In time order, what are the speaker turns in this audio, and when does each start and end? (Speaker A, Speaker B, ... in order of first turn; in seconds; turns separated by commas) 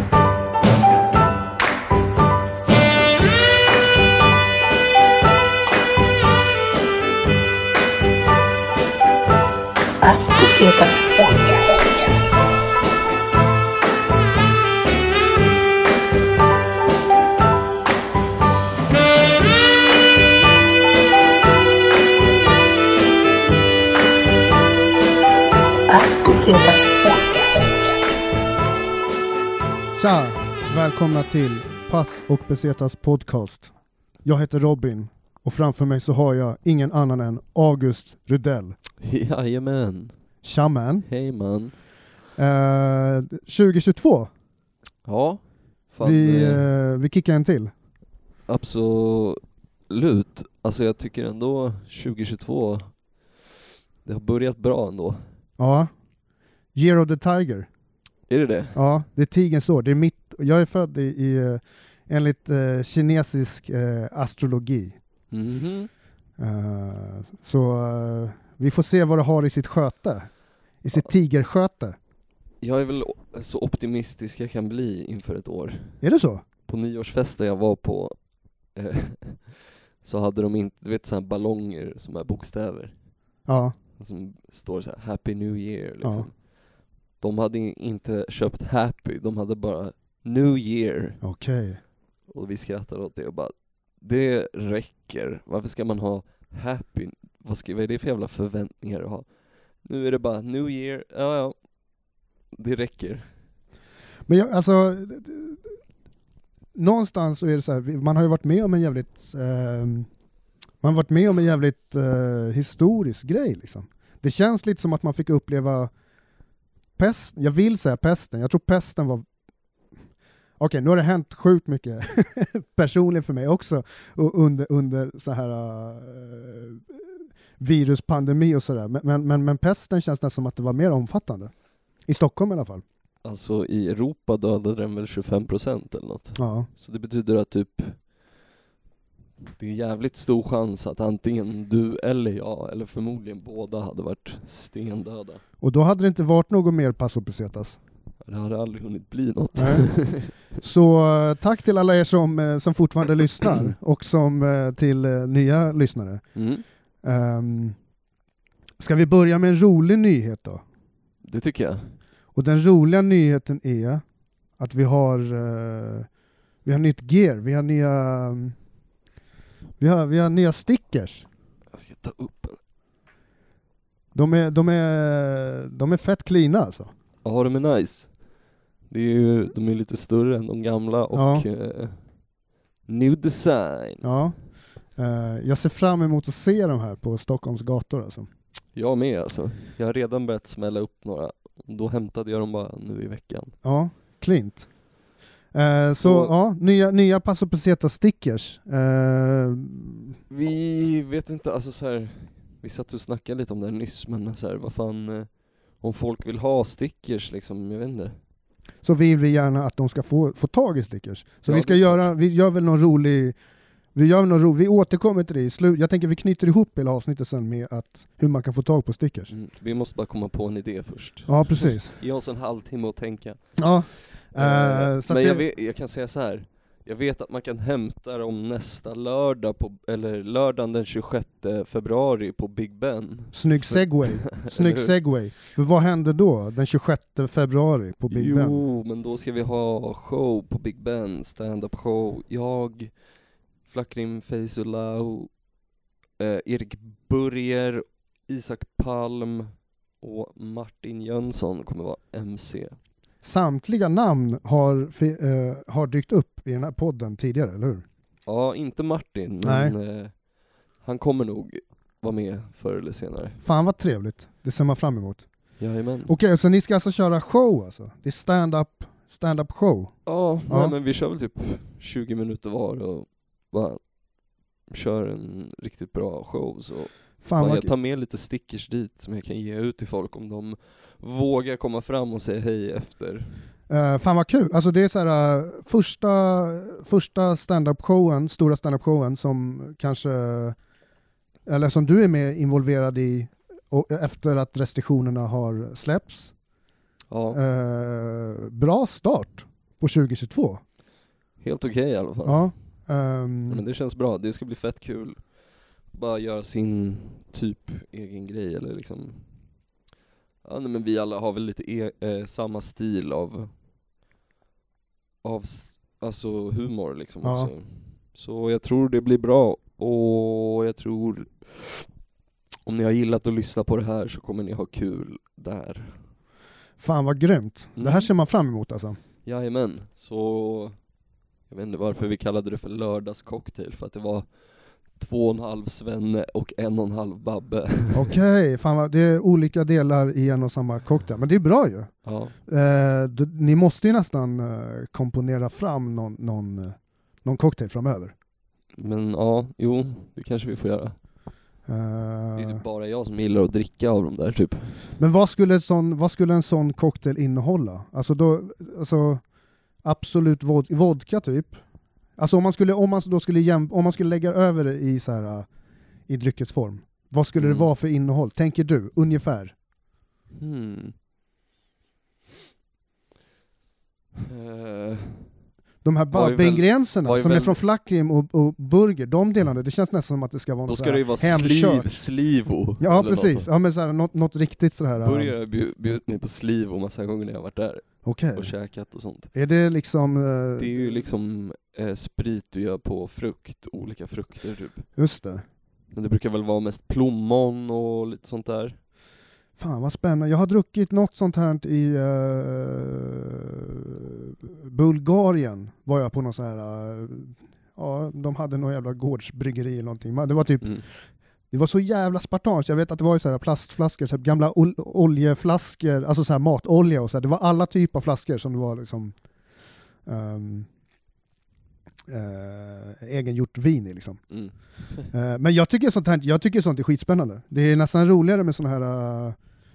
Speaker A: 10.0-12.3, Speaker A: 25.9-28.0, Speaker B: 30.0-33.7, Speaker B: 34.2-38.8, Speaker C: 39.0-40.1, Speaker B: 40.4-41.1, Speaker C: 41.1-41.8, Speaker B: 42.4-44.3, Speaker C: 45.0-46.7, Speaker B: 46.0-47.7, Speaker C: 48.5-53.0, Speaker C: 54.0-55.2, Speaker B: 55.6-55.9, Speaker B: 56.7-57.7, Speaker C: 58.3-58.8, Speaker B: 58.8-65.0, Speaker C: 65.3-65.9, Speaker B: 66.4-70.3, Speaker B: 70.8-72.0, Speaker C: 72.6-76.0, Speaker B: 76.0-76.4, Speaker C: 76.7-78.2, Speaker C: 78.8-83.0, Speaker B: 83.5-83.8, Speaker C: 84.0-86.4, Speaker B: 86.0-86.3, Speaker C: 87.2-91.2, Speaker B: 91.2-91.8, Speaker C: 92.3-99.3, Speaker C: 99.8-101.6, Speaker C: 102.6-103.3, Speaker B: 104.3-105.8, Speaker B: 106.8-110.1, Speaker B: 110.8-115.9, Speaker B: 117.0-119.2, Speaker B: 120.6-127.1, Speaker B: 127.6-131.5, Speaker B: 132.1-132.8, Speaker C: 133.2-138.0, Speaker B: 136.4-136.7, Speaker C: 139.6-145.4, Speaker B: 145.6-147.8, Speaker C: 148.2-150.3, Speaker B: 149.6-149.9, Speaker B: 150.6-156.2, Speaker C: 156.3-156.6, Speaker B: 157.0-157.8, Speaker B: 158.8-160.6, Speaker C: 161.2-161.8, Speaker B: 162.3-164.0, Speaker B: 164.6-166.1, Speaker B: 166.7-168.6, Speaker B: 169.8-171.2, Speaker C: 171.7-172.6, Speaker B: 174.1-176.9, Speaker C: 177.2-178.1, Speaker C: 178.9-182.0, Speaker B: 181.1-181.4, Speaker C: 182.8-184.1, Speaker B: 184.0-184.3, Speaker B: 185.0-188.3, Speaker C: 188.8-193.5, Speaker B: 193.6-194.7, Speaker B: 195.5-200.2, Speaker C: 196.0-196.3, Speaker C: 200.3-208.2, Speaker B: 208.8-213.3, Speaker C: 211.4-212.1, Speaker B: 213.9-219.3, Speaker C: 219.3-223.4, Speaker B: 221.3-222.0, Speaker B: 223.6-225.4, Speaker C: 224.3-234.9, Speaker B: 233.3-238.6, Speaker C: 238.1-242.9, Speaker C: 243.7-245.3, Speaker C: 246.2-252.8, Speaker B: 253.2-257.9, Speaker C: 258.2-260.2, Speaker B: 259.4-259.8, Speaker C: 260.8-263.4, Speaker B: 263.4-265.2, Speaker C: 265.6-266.1, Speaker B: 266.1-269.9, Speaker C: 270.1-273.8, Speaker B: 270.5-270.8, Speaker C: 274.7-283.3, Speaker B: 277.2-277.7, Speaker B: 283.7-290.6, Speaker B: 291.4-296.3, Speaker C: 297.1-297.4, Speaker B: 297.3-300.6, Speaker C: 301.4-302.4, Speaker B: 302.2-303.6, Speaker C: 303.5-305.2, Speaker C: 305.9-309.3, Speaker C: 310.4-313.5, Speaker C: 315.2-321.9, Speaker B: 317.2-317.5, Speaker C: 322.7-326.0, Speaker B: 326.8-329.0, Speaker C: 327.8-328.1, Speaker C: 329.2-330.8, Speaker C: 331.5-334.3, Speaker C: 334.9-338.1, Speaker B: 337.9-341.9, Speaker C: 342.1-342.3, Speaker B: 342.5-348.1, Speaker C: 348.8-350.9, Speaker B: 351.7-352.6, Speaker C: 352.4-354.7, Speaker B: 355.0-359.2, Speaker B: 359.8-361.6, Speaker B: 362.2-365.5, Speaker B: 366.1-369.5, Speaker C: 367.4-367.7, Speaker C: 370.4-370.9, Speaker C: 374.2-375.3, Speaker B: 375.8-382.0, Speaker C: 376.1-377.6, Speaker C: 380.7-383.5, Speaker B: 382.8-385.3, Speaker C: 385.0-389.3, Speaker B: 388.0-388.5, Speaker B: 389.3-390.8, Speaker C: 390.6-394.9, Speaker B: 394.9-395.4, Speaker C: 395.9-398.8, Speaker B: 399.6-410.8, Speaker B: 411.5-419.1, Speaker B: 420.1-420.7, Speaker B: 422.1-424.2, Speaker C: 424.3-425.1, Speaker B: 425.1-429.4